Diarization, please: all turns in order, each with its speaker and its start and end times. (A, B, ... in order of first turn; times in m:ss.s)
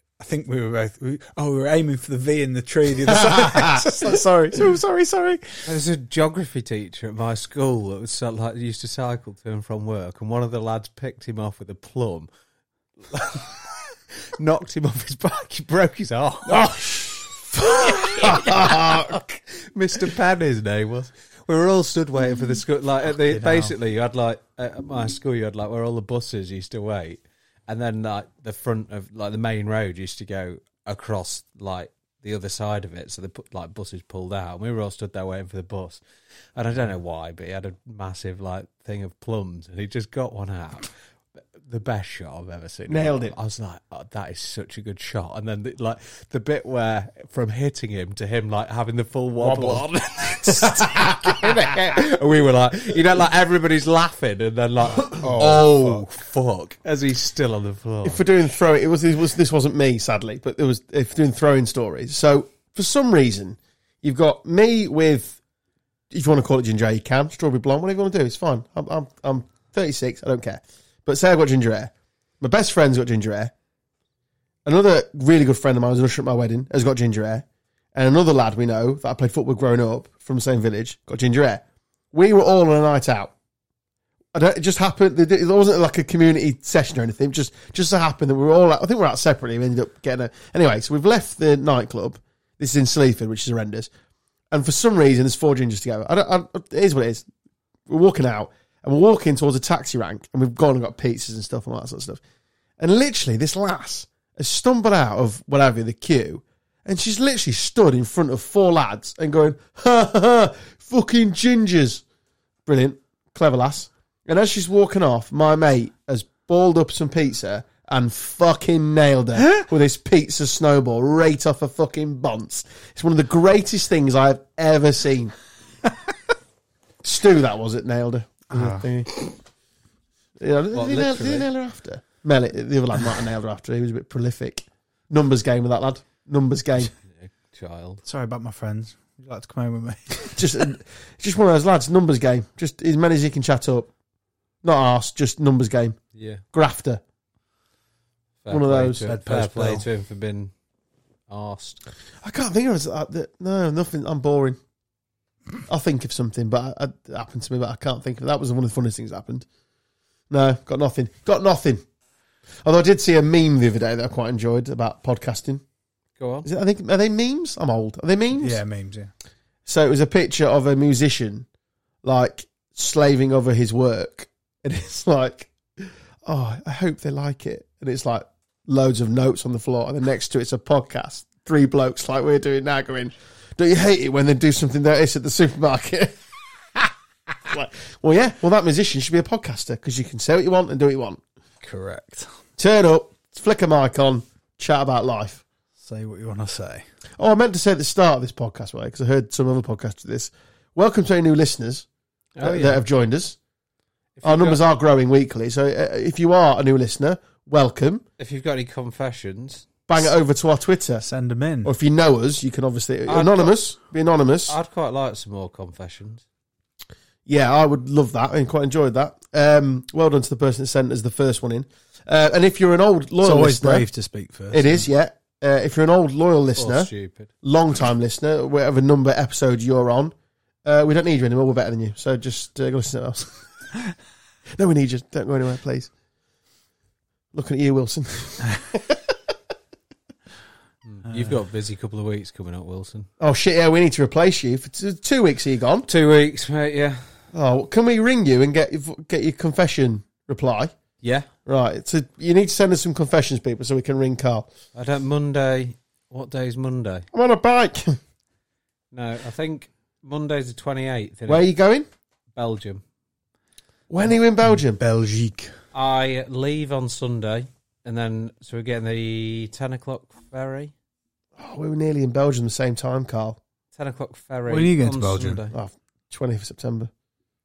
0:00.2-0:05.7 A
0:03.1-0:04.0 B
0:05.7-0:12.3 C
0:13.1-0:13.6 C
0:14.4-0:16.6 C
0:16.5-0:17.4 B
0:17.6-0:36.0 C
0:18.2-0:19.2 B
0:23.3-0:23.7 A
0:36.6-0:40.9 C
0:41.6-0:58.2 C
0:42.9-0:43.4 B
0:49.4-0:49.9 B
0:50.4-0:52.0 B
0:55.1-0:56.0 A
0:58.0-1:05.4 B
1:06.1-1:13.5 B
1:14.6-1:23.3 B
1:24.3-1:33.9 B
1:34.5-1:37.3 B
1:37.9-1:42.2 B
1:42.8-1:52.0 B
1:52.7-2:05.3 B
2:07.0-2:09.4 B
2:08.5-2:08.9 A
2:10.4-2:16.9 B
2:10.7-2:11.5 C
2:17.2-2:18.0 C
2:18.0-2:20.5 A
2:20.4-2:23.9 B
2:24.6-2:26.0 B
2:26.1-2:26.4 C
2:26.5-2:27.0 B
2:28.4-2:30.5 C
2:28.5-2:29.0 B
2:29.1-2:29.8 A
2:31.3-2:31.8 C
2:32.2-2:34.6 B
2:35.7-2:39.5 B
2:40.3-2:41.8 B
2:42.6-2:45.6 B
2:46.2-2:46.5 C
2:46.4-2:48.6 B
2:48.3-2:49.1 A
2:49.7-2:51.5 B
2:52.0-3:11.2 B
3:11.6-3:12.3 A
3:12.6-3:15.4 B
3:15.8-3:16.8 A
3:17.2-3:21.9 B
3:22.4-3:22.8 C
3:22.4-3:23.4 B
3:24.2-3:24.6 C
3:24.2-3:28.0 B
3:28.2-3:29.7 C
3:29.9-3:31.0 B
3:31.0-3:31.7 A
3:31.6-3:34.6 B
3:33.1-3:33.5 C
3:34.5-3:36.2 C
3:37.3-3:43.9 B
3:43.2-3:44.8 A
3:44.5-3:46.9 B
3:46.6-3:47.3 C
3:47.4-3:50.1 B
3:50.6-3:53.5 B
3:54.6-3:55.9 B
3:57.3-3:59.2 B
4:00.8-4:03.1 C
4:03.2-4:05.9 B
4:05.9-4:07.1 C
4:07.3-4:10.8 B
4:11.0-4:11.3 C
4:11.5-4:14.5 B
4:14.8-4:17.1 C
4:17.1-4:18.0 B
4:18.9-4:21.5 C
4:21.3-4:21.9 B
4:22.4-4:22.8 C
4:23.9-4:24.8 B
4:24.4-4:25.5 A
4:25.7-4:30.7 C
4:31.4-4:33.4 B
4:33.8-4:35.6 C
4:34.5-4:35.4 A
4:35.5-4:36.9 B